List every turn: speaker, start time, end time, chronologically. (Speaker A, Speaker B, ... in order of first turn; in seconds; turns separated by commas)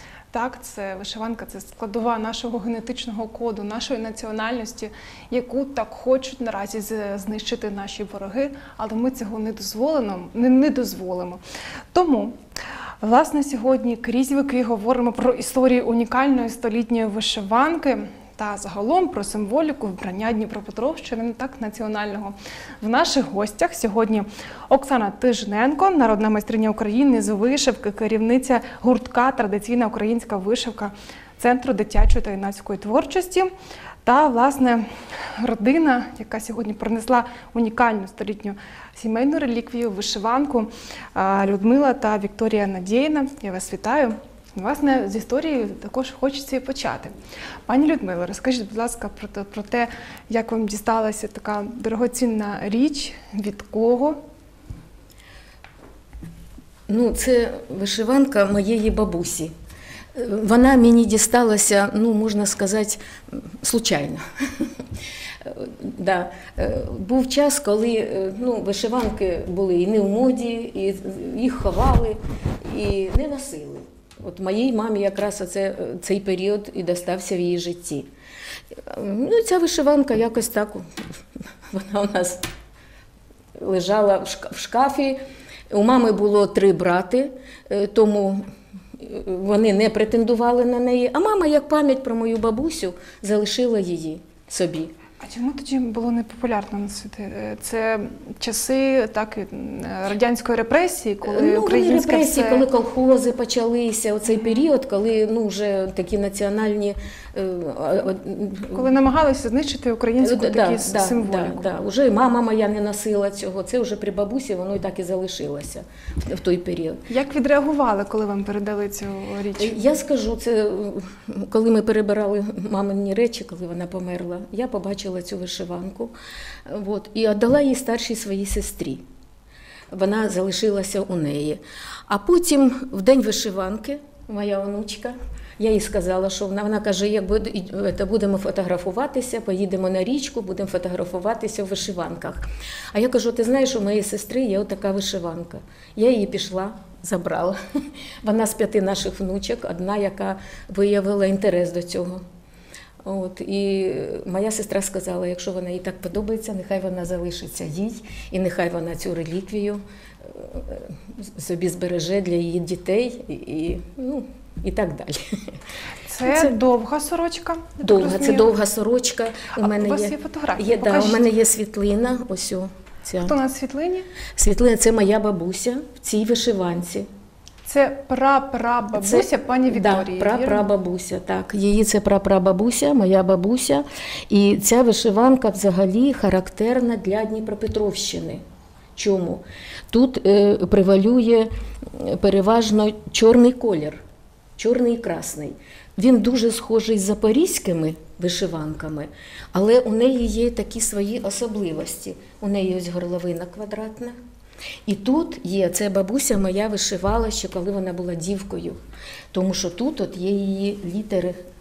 Speaker A: 0.3-12.4, Speaker A: 13.0-33.5, Speaker A: 34.0-47.1, Speaker A: 47.7-54.2, Speaker B: 56.9-59.5, Speaker B: 60.1-64.9, Speaker B: 65.4-78.1, Speaker B: 78.7-82.5, Speaker B: 83.6-85.2, Speaker B: 85.7-88.4, Speaker B: 89.0-94.9, Speaker A: 95.2-102.7, Speaker B: 101.2-108.9, Speaker A: 108.7-111.7, Speaker B: 110.2-117.1, Speaker A: 117.1-119.8, Speaker B: 119.6-126.1, Speaker B: 126.7-129.1, Speaker B: 129.9-142.4, Speaker B: 142.9-147.6, Speaker B: 148.2-152.2, Speaker B: 153.0-165.6, Speaker A: 166.1-168.5, Speaker B: 166.2-166.6, Speaker B: 167.8-173.4, Speaker A: 169.6-171.2, Speaker A: 173.2-174.1, Speaker B: 174.3-177.1, Speaker A: 177.7-180.7, Speaker B: 178.9-188.4, Speaker B: 189.0-194.0, Speaker B: 194.6-204.2, Speaker B: 204.9-208.8, Speaker B: 209.3-211.4